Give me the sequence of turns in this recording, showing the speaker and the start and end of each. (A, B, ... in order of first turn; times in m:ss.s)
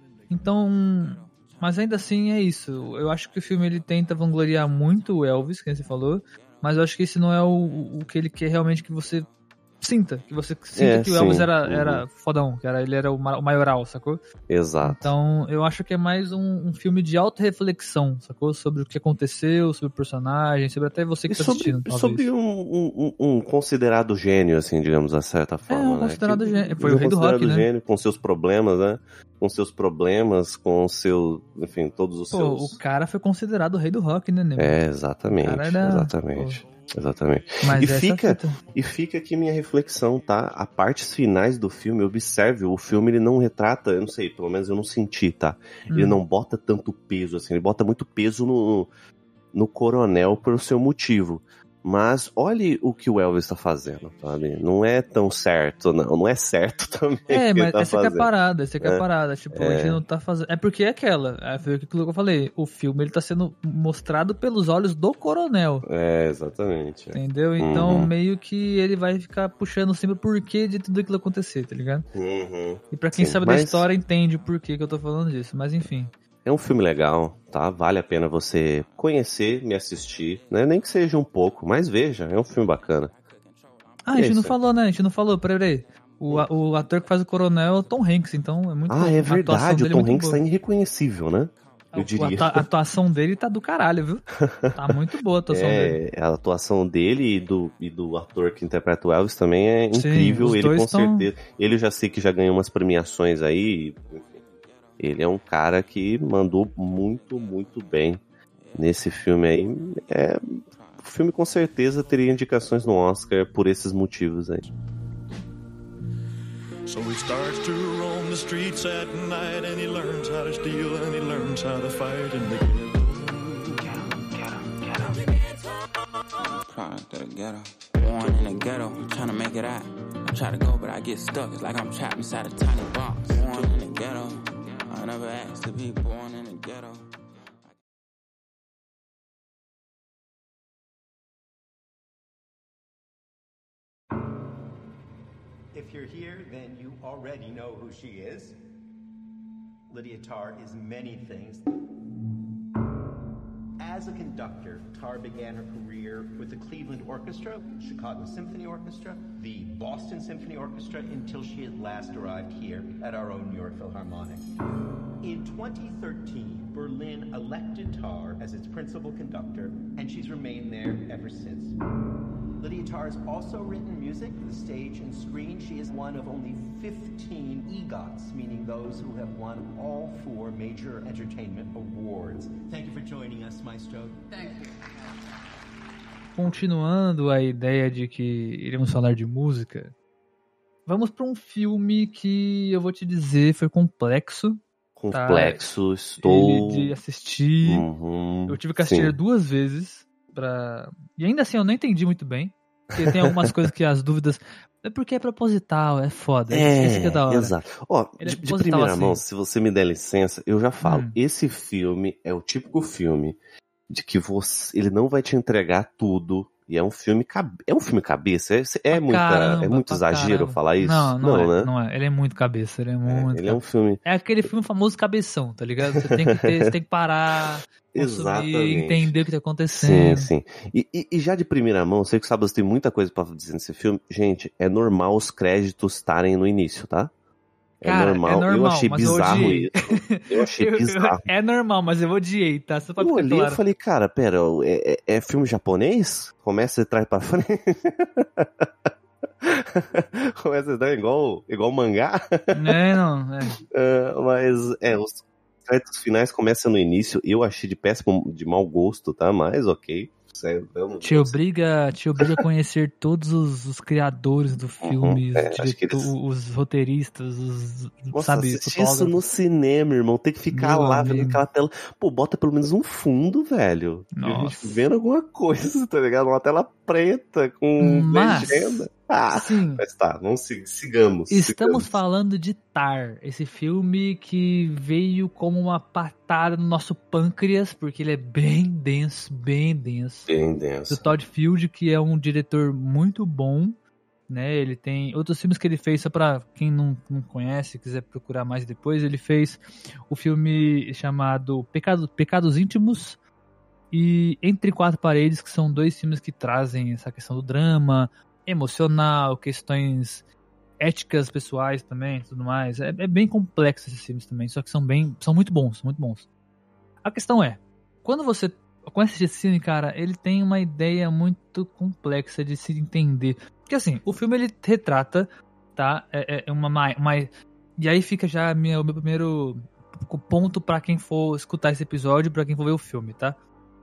0:00.3-0:09.2 A
0:09.8-0:14.2 A
0:10.8-0:12.0 B
0:14.5-0:15.1 B
0:14.8-0:22.2 A
0:21.3-0:32.8 B
0:25.7-0:27.7 A
0:32.3-0:34.8 A
0:34.6-0:48.9 B
0:35.3-0:36.6 A
0:37.6-0:38.6 A
0:45.9-0:46.2 A
0:49.5-1:00.0 B
0:57.3-1:05.8 A
1:05.8-1:08.1 B
1:07.1-1:12.1 A
1:12.1-1:13.9 B
1:12.9-1:16.1 A
1:16.4-1:23.1 B
1:24.0-1:30.4 A
1:24.1-1:24.5 B
1:28.9-1:32.6 B
1:31.9-1:36.0 A
1:34.4-1:34.7 B
1:35.5-1:44.4 B
1:39.9-1:41.3 A
1:45.0-1:48.2 B
1:48.7-1:54.7 B
1:56.9-2:03.2 C
2:03.8-2:05.3 D
2:06.6-2:17.0 D
2:25.7-2:28.6 E
2:29.9-2:31.7 E
2:33.8-2:44.5 E
2:45.2-2:51.8 E
2:52.6-3:04.7 E
3:06.3-3:09.9 A
3:10.8-3:15.6 A
3:15.0-3:17.0 B
3:16.2-3:17.9 A
3:17.6-3:19.1 B
3:18.5-3:27.5 A
3:22.9-3:23.6 B
3:26.5-3:33.4 B
3:28.2-3:29.2 A
3:30.8-3:31.2 A
3:33.9-3:41.7 B
3:38.9-3:50.3 A
3:43.0-3:44.5 B
3:45.8-3:46.7 B
3:47.9-3:49.2 B
3:49.7-3:57.1 B
3:57.8-4:03.6 A
3:57.8-4:01.2 B
4:03.0-4:08.7 B
4:09.4-4:12.7 B
4:12.5-4:13.6 A
4:13.6-4:21.3 B
4:21.0-4:29.2 A
4:24.8-4:26.1 B
4:28.1-4:42.0 B
4:30.5-4:31.4 A
4:34.1-4:34.8 A
4:37.8-4:39.8 A
4:41.3-4:50.3 A
4:50.3-4:51.1 B
4:50.9-4:53.8 A
4:54.3-5:03.2 A
5:03.9-5:10.2 A
5:10.8-5:16.3 A
5:17.0-5:33.4 A